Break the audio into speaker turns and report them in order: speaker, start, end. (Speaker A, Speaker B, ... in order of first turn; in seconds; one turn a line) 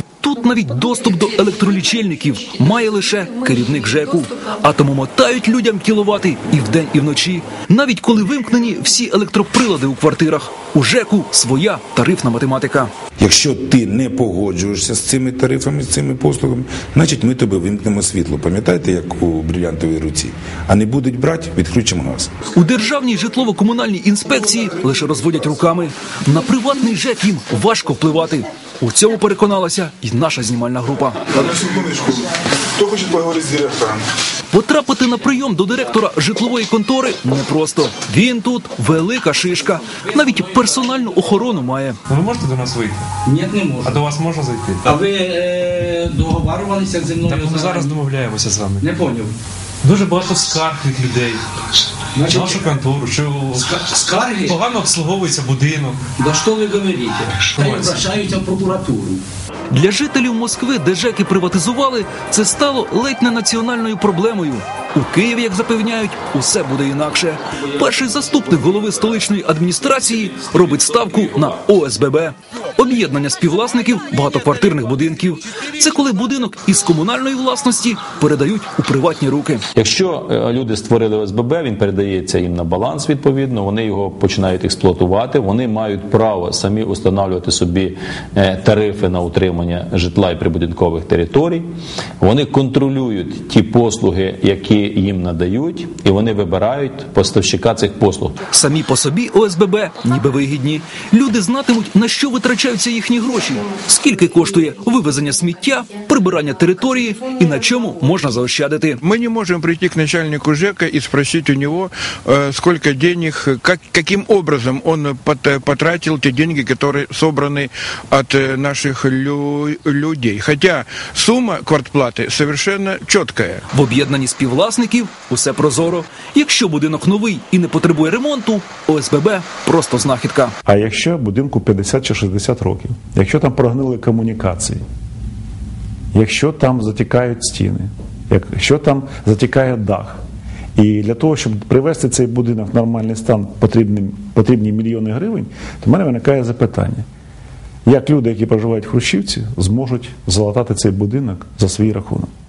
Speaker A: 0.2-12.9
Speaker B: 13.2-22.3
Speaker A: 22.5-31.2
Speaker C: 31.3-34.0
Speaker A: 34.5-42.0
Speaker D: 42.1-43.1
Speaker E: 43.2-44.0
Speaker D: 43.8-45.0
Speaker E: 44.8-48.0
Speaker D: 47.2-48.9
Speaker E: 48.8-49.3
Speaker D: 49.8-51.4
Speaker E: 52.1-52.7
Speaker D: 52.3-56.0
Speaker E: 53.6-54.5
Speaker E: 56.2-59.2
Speaker D: 57.5-58.0
Speaker A: 59.7-79.7
Speaker F: 79.7-91.7
Speaker F: 92.2-98.4
Speaker A: 98.5-109.0
Speaker G: 109.0-123.7
Speaker A: 123.7-130.5
Speaker H: 130.7-134.8
Speaker H: 136.1-140.2
Speaker H: 140.8-147.0
Speaker H: 147.8-152.3